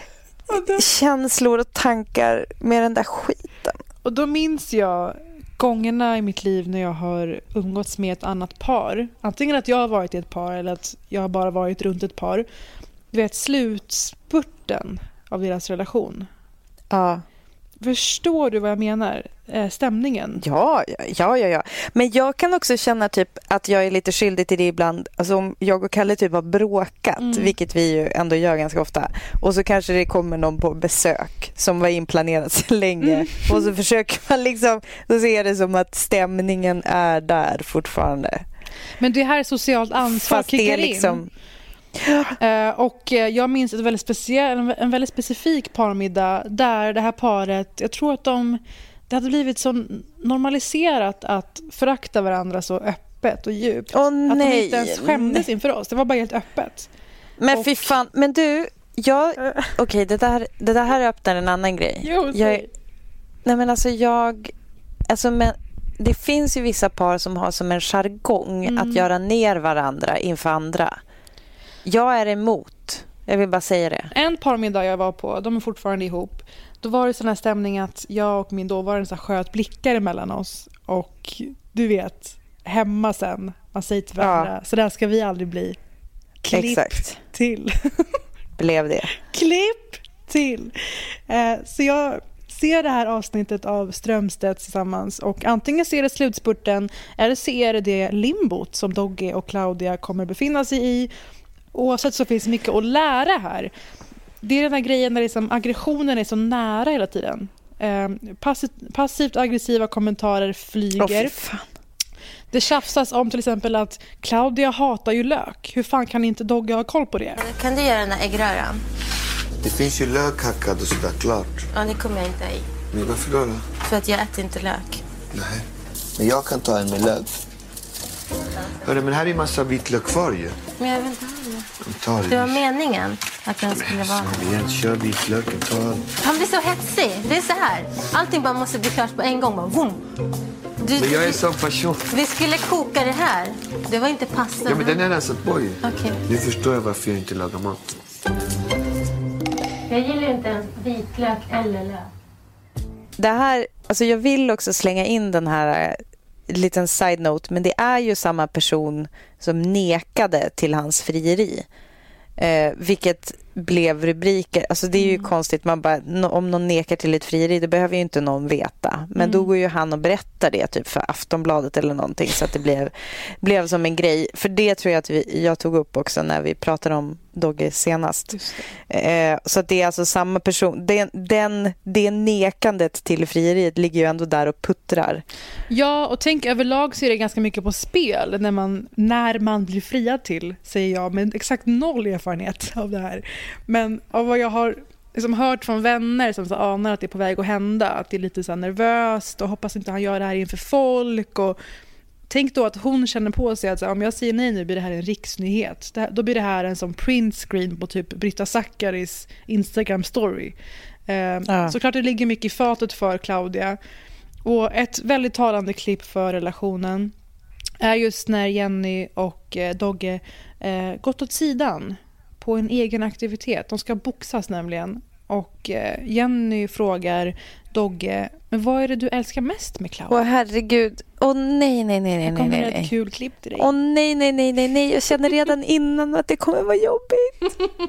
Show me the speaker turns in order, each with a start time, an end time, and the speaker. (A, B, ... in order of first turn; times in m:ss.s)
0:00.5-0:00.8 A
0:00.5-0:03.8 B
0:04.0-0:12.5 A
0:13.1-0:16.3 A
0:16.9-0:17.2 B
0:17.8-0:20.4 A
0:20.4-0:38.4 B
0:27.2-0:27.5 A
0:33.0-0:33.7 A
0:39.0-0:41.2 A
0:40.0-0:41.3 B
0:42.0-0:42.3 B
0:42.4-0:56.9 A
0:53.9-0:55.5 B
0:57.4-1:02.6 B
0:57.5-0:57.9 A
0:59.4-0:59.7 A
1:02.0-1:02.7 A
1:03.4-1:04.5 B
1:05.1-1:11.0 B
1:08.6-1:09.1 A
1:11.8-1:14.1 B
1:14.1-1:25.8 A
1:24.2-1:24.5 B
1:26.4-1:28.2 A
1:26.5-1:27.2 B
1:28.6-1:29.2 B
1:29.2-1:41.1 A
1:41.7-1:43.7 A
1:44.4-1:51.3 A
1:51.0-1:51.7 B
1:52.5-1:57.4 A
1:57.4-1:58.8 C
1:59.6-2:01.7 D
2:01.7-2:02.7 C
2:02.9-2:03.6 D
2:03.8-2:05.0 C
2:05.3-2:05.6 D
2:06.2-2:07.3 D
2:08.8-2:10.6 D
2:10.8-2:11.7 C
2:11.8-2:12.6 D
2:12.3-2:14.3 C
2:13.8-2:16.0 D
2:16.2-2:20.0 C
2:20.8-2:21.4 C
2:20.9-2:22.1 D
2:22.1-2:25.0 C
2:24.6-2:27.9 D
2:25.8-2:26.2 C
2:29.9-2:32.1 C
2:33.2-2:41.7 B
2:42.4-3:05.2 B
2:45.0-2:45.3 A
2:49.2-2:49.5 A
2:58.3-2:58.7 A
3:05.7-3:21.6 A
3:22.3-3:30.6 A
3:31.1-3:33.8 A
3:31.5-3:31.7 B
3:34.4-3:37.1 A
3:37.8-3:50.2 A
3:50.1-3:52.9 B
3:52.3-3:53.7 A
3:53.6-3:57.3 B